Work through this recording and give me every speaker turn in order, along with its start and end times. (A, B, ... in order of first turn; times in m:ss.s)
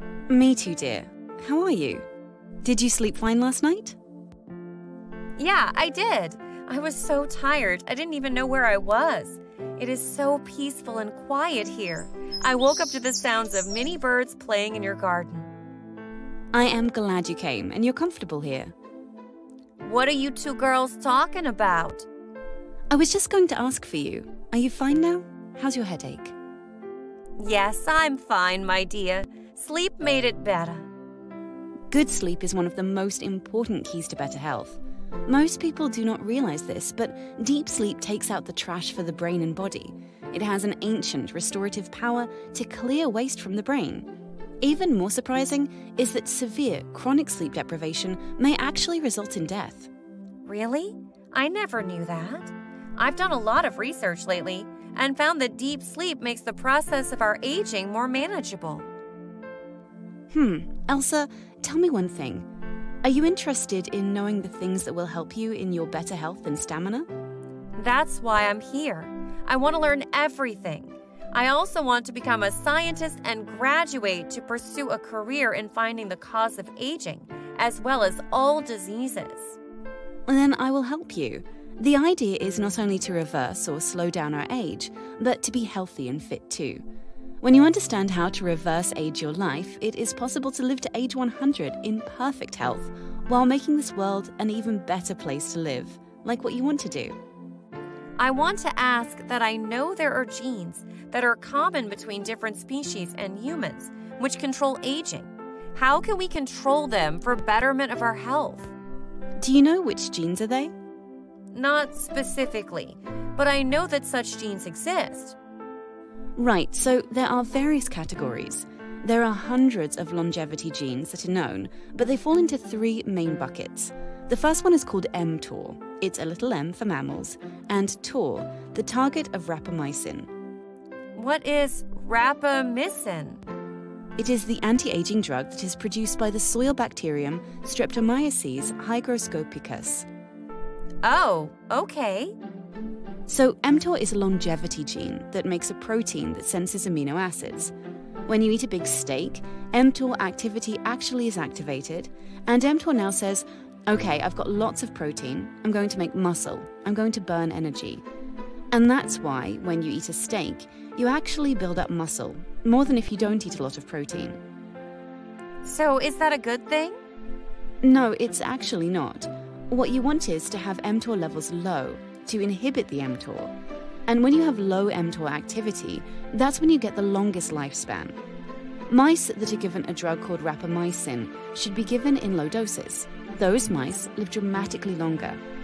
0:00.3-0:02.1 A
0:02.6-0:04.0 A
0:05.4-0:15.5 B
0:16.5-0:18.7 A
0:19.8-0:22.1 B
0:22.9-0:26.3 A
0:27.4-0:30.9 B
0:31.9-0:44.1 A
0:44.6-0:49.9 A
0:50.4-0:58.9 B
1:00.3-1:02.4 A
1:03.0-1:07.1 A
1:07.8-1:19.6 B
1:20.3-1:26.8 A
1:27.4-1:37.2 A
1:38.2-1:48.7 B
1:49.4-1:50.7 A
1:51.5-1:55.4 B
1:56.4-2:10.3 A
2:11.1-2:13.4 B
2:14.2-2:20.1 A
2:21.0-2:22.3 B
2:23.3-2:27.7 A
2:28.3-2:38.0 A
2:38.7-2:44.4 A
2:45.6-2:47.0 B
2:47.8-2:53.5 A
2:54.1-2:58.2 A
2:58.9-3:05.4 A